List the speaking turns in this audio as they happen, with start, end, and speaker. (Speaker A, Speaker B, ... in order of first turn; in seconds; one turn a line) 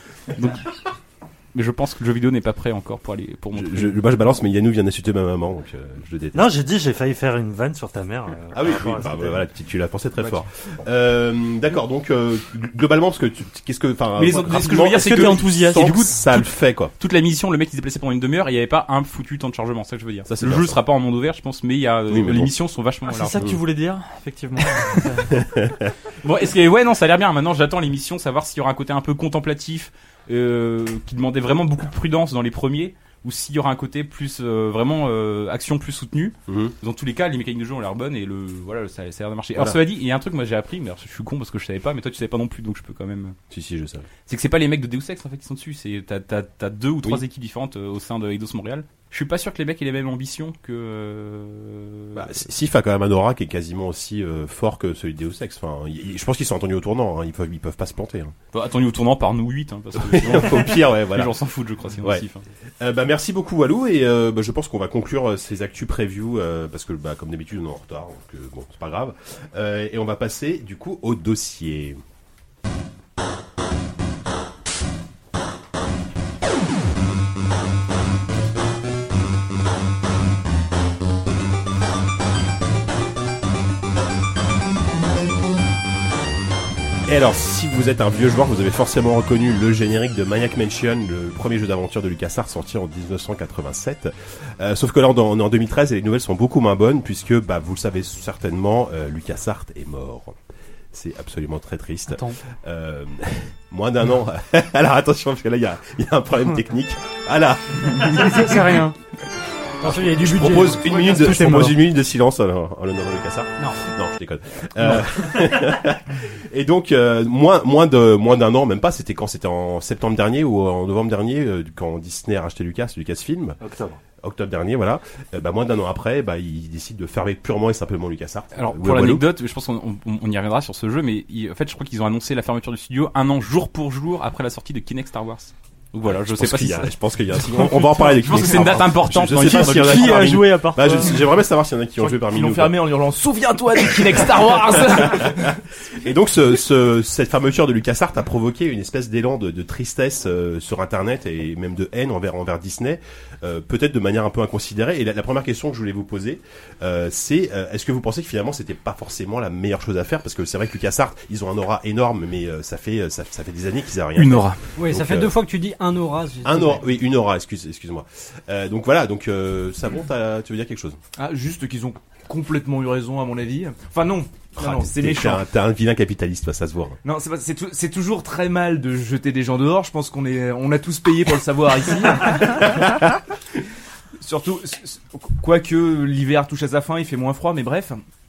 Speaker A: 0.3-0.7
Speaker A: 1.5-4.0
Speaker B: 3.5-6.5
Speaker C: 6.3-9.4
Speaker B: 8.5-16.9
Speaker A: 14.2-23.4
Speaker D: 14.4-16.1
Speaker B: 20.2-20.8
Speaker B: 22.1-22.5
Speaker D: 23.1-25.4
Speaker B: 25.3-25.9
Speaker A: 26.2-43.4
Speaker B: 36.5-36.7
Speaker B: 43.5-44.1
Speaker A: 44.2-52.3
Speaker B: 52.1-58.3
Speaker A: 58.5-62.4
Speaker B: 60.0-61.3
Speaker B: 62.8-72.0
Speaker B: 87.1-100.3
Speaker B: 100.9-108.6
Speaker D: 108.0-109.0
Speaker B: 109.8-123.6
Speaker E: 109.8-110.7
Speaker D: 109.9-111.8
Speaker C: 123.6-124.0
Speaker B: 124.2-129.2
Speaker A: 128.5-140.4
Speaker B: 136.1-142.8
Speaker D: 139.4-141.2
Speaker F: 142.0-145.6
Speaker B: 145.0-165.3
Speaker A: 164.1-164.6
Speaker E: 164.8-166.8
Speaker B: 166.4-171.0
Speaker F: 171.2-175.4
Speaker B: 174.6-177.0
Speaker F: 177.0-182.9
Speaker F: 184.2-188.0